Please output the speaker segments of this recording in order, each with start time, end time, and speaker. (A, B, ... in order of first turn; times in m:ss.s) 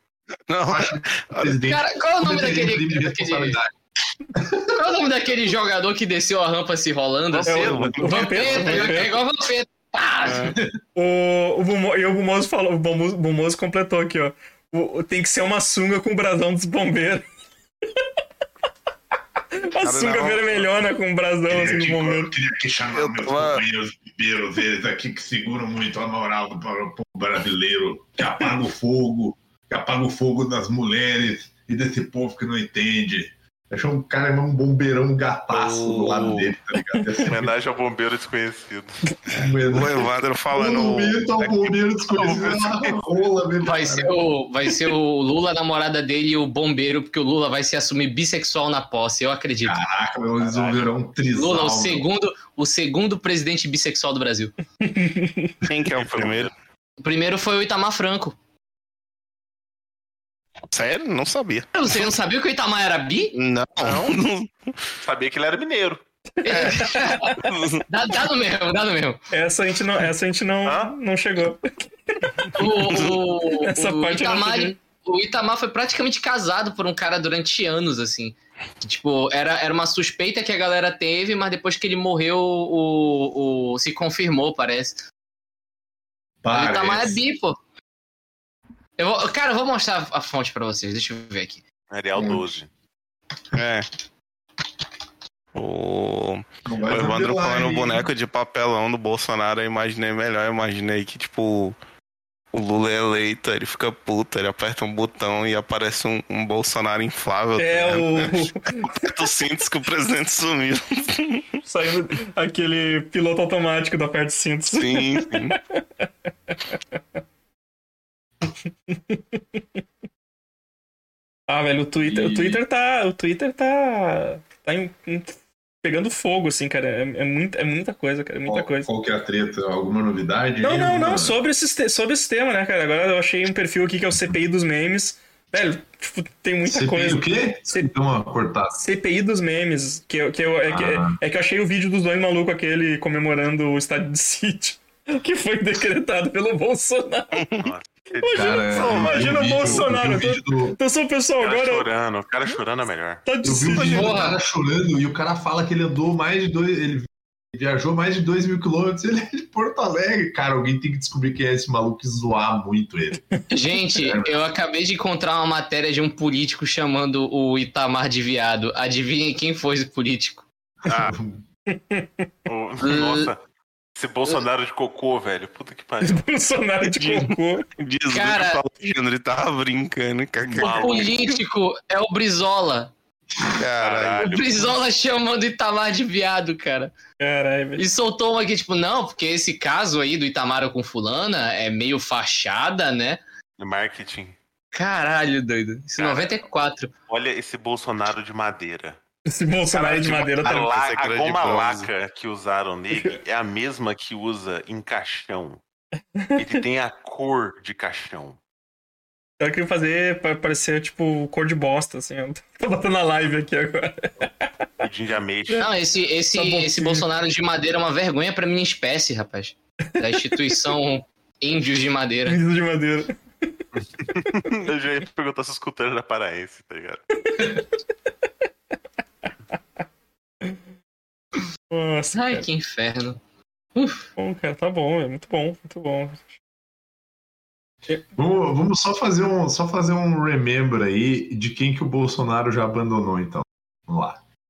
0:00.5-0:01.6 A
0:00.7-0:03.7 B
0:01.7-0:03.6 C
0:04.7-0:10.6 C
0:07.4-0:09.1 D
0:07.5-0:09.1 E
0:07.6-0:08.8 A
0:11.0-0:17.3 E
0:19.6-0:22.3 E
0:19.8-0:20.7 A
0:21.5-0:37.5 B
0:22.9-0:23.7 A
0:35.5-0:36.6 A
0:37.2-0:39.0 D
0:39.4-0:44.3 B
0:39.7-0:41.3 A
0:42.1-0:43.1 D
0:43.6-0:49.8 C
0:49.6-0:52.0 B
0:50.4-0:50.8 D
0:51.3-0:54.5 C
0:54.8-0:55.6 E
0:55.7-0:56.5 A
0:55.9-0:56.5 D
0:57.0-0:58.4 C
1:00.7-1:02.1 A
1:01.8-1:03.3 C
1:03.4-1:04.5 A
1:03.8-1:04.2 D
1:05.0-1:06.0 D
1:06.4-1:07.2 C
1:06.5-1:07.4 E
1:06.5-1:07.8 A
1:07.9-1:09.2 C
1:09.3-1:11.6 E
1:10.6-1:10.9 D
1:12.4-1:14.7 E
1:12.6-1:25.0 C
1:12.9-1:13.2 A
1:26.4-1:27.2 B
1:26.5-1:27.6 C
1:29.0-1:31.6 C
1:31.9-1:32.7 D
1:32.2-1:32.6 B
1:33.5-1:33.9 A
1:35.5-1:41.8 A
1:36.7-1:38.1 B
1:42.5-1:51.6 A
1:47.6-1:48.8 E
1:51.6-1:56.7 E
1:54.8-1:55.6 A
1:58.9-1:59.2 E
2:01.5-2:08.9 E
2:02.0-2:02.6 B
2:08.5-2:11.4 B
2:10.6-2:17.9 E
2:16.6-2:18.8 B
2:18.8-2:27.5 E
2:20.7-2:21.2 B
2:27.6-2:29.9 D
2:28.2-2:31.9 E
2:28.3-2:30.8 B
2:31.4-2:33.2 D
2:33.2-2:34.2 E
2:33.4-2:43.2 B
2:33.9-2:34.3 C
2:43.5-2:50.5 C
2:44.0-2:44.3 B
2:50.9-2:51.1 D
2:50.9-2:51.4 B
2:51.7-2:52.3 E
2:52.5-2:53.4 D
2:52.8-2:53.3 C
2:54.0-2:56.3 D
2:56.0-2:57.6 E
2:56.8-3:01.3 A
2:58.1-2:58.6 C
3:00.4-3:01.2 D
3:00.6-3:02.9 C
3:03.6-3:04.4 A
3:03.8-3:04.7 D
3:04.2-3:06.9 C
3:07.2-3:07.8 E
3:07.8-3:13.2 C
3:13.6-3:14.4 D
3:14.7-3:16.9 C
3:16.0-3:16.4 D
3:17.1-3:19.0 D
3:19.3-3:20.7 E
3:19.7-3:25.6 D
3:20.5-3:21.9 A
3:22.9-3:23.2 E
3:26.2-3:26.6 E
3:26.4-3:28.4 D
3:29.4-3:34.6 E
3:34.8-3:35.7 D
3:35.6-3:42.4 C
3:36.4-3:37.1 E
3:40.0-3:40.4 E
3:42.3-3:43.6 E
3:43.8-3:47.0 D
3:47.2-3:47.7 E
3:51.7-3:52.4 E
3:52.1-3:53.2 C
3:53.8-3:54.0 C
3:54.2-3:56.2 E
3:58.2-4:04.2 B